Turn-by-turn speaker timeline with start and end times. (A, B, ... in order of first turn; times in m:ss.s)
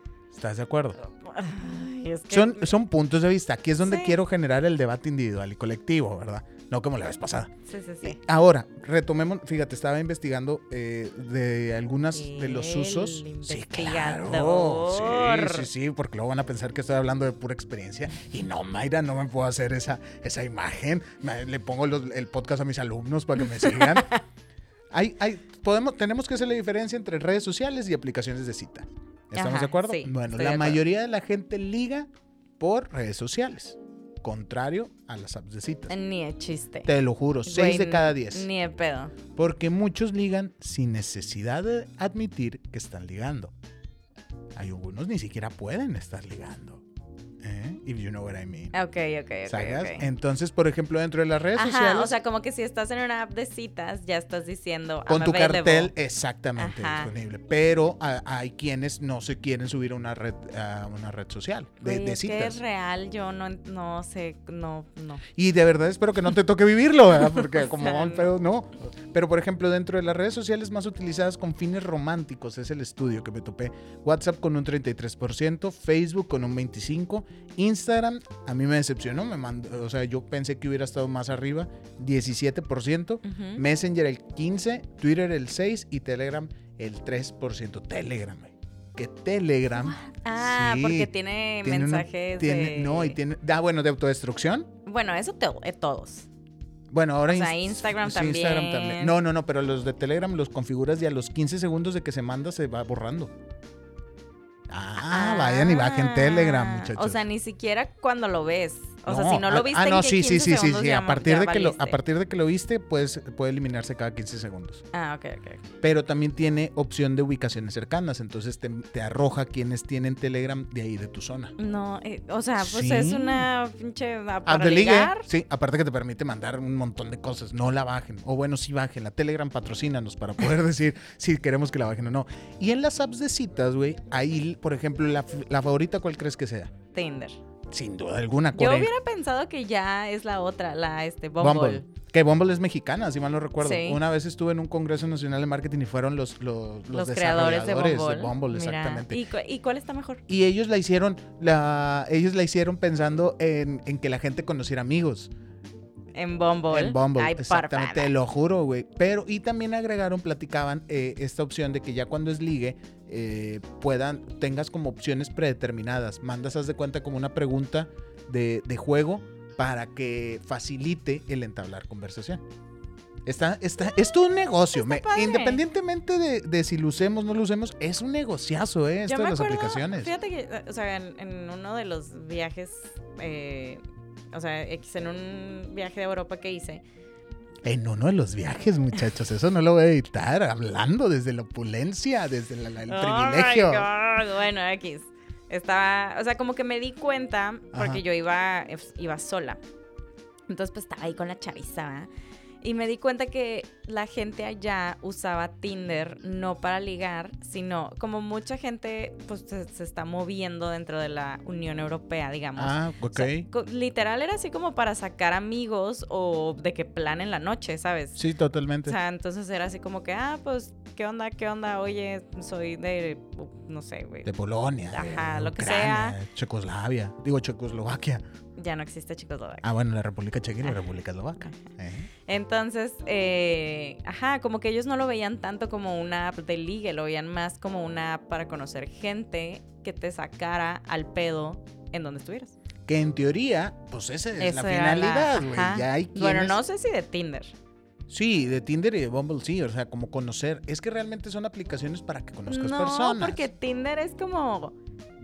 0:00.3-0:01.0 A
0:01.0-0:02.7 B
0:02.3-0:24.1 A
0:03.8-0:04.2 B
0:07.7-0:08.2 B
0:12.1-0:15.7 B
0:23.5-0:24.2 B
0:24.9-0:35.9 A
0:29.3-0:30.8 B
0:35.9-0:36.9 B
0:36.8-0:38.5 A
0:37.4-0:39.1 B
0:39.3-0:43.5 A
0:44.5-0:46.8 A
0:47.4-0:48.7 A
0:48.7-0:50.1 B
0:49.5-0:52.2 A
0:51.5-0:55.9 B
0:55.1-1:02.6 A
0:56.6-0:57.1 B
1:01.8-1:05.2 B
1:05.3-1:31.1 A
1:07.4-1:08.3 B
1:23.2-1:23.6 B
1:29.7-1:33.2 B
1:31.6-1:34.7 A
1:34.8-1:36.3 B
1:36.9-1:43.3 A
1:37.3-1:39.2 B
1:44.7-1:47.2 A
1:45.0-1:52.0 B
1:49.0-1:54.8 A
1:54.9-1:55.6 B
1:55.8-2:01.5 A
2:01.6-2:05.3 B
2:02.6-2:03.5 A
2:04.4-2:16.7 A
2:16.9-2:17.4 B
2:17.7-2:18.9 A
2:18.5-2:21.8 B
2:21.4-2:29.2 A
2:23.6-2:24.0 B
2:26.9-2:30.2 B
2:30.3-2:35.3 A
2:36.1-2:38.1 B
2:36.7-2:52.4 A
2:53.2-3:00.1 A
2:54.7-2:55.6 B
2:59.0-3:03.8 B
3:04.3-3:06.8 B
3:07.6-3:13.9 A
3:12.9-3:19.6 B
3:17.7-3:18.0 A
3:20.5-3:22.1 B
3:22.6-3:38.2 B
3:32.6-3:33.5 A
3:38.2-3:39.0 A
3:38.8-3:44.3 B
3:44.2-3:48.2 A
3:44.9-3:46.2 B
3:48.6-3:49.6 B
3:49.6-3:52.1 A
3:52.3-4:02.6 B
4:02.8-4:06.6 A
4:04.4-4:07.5 B
4:08.1-4:13.5 A
4:12.5-4:14.8 B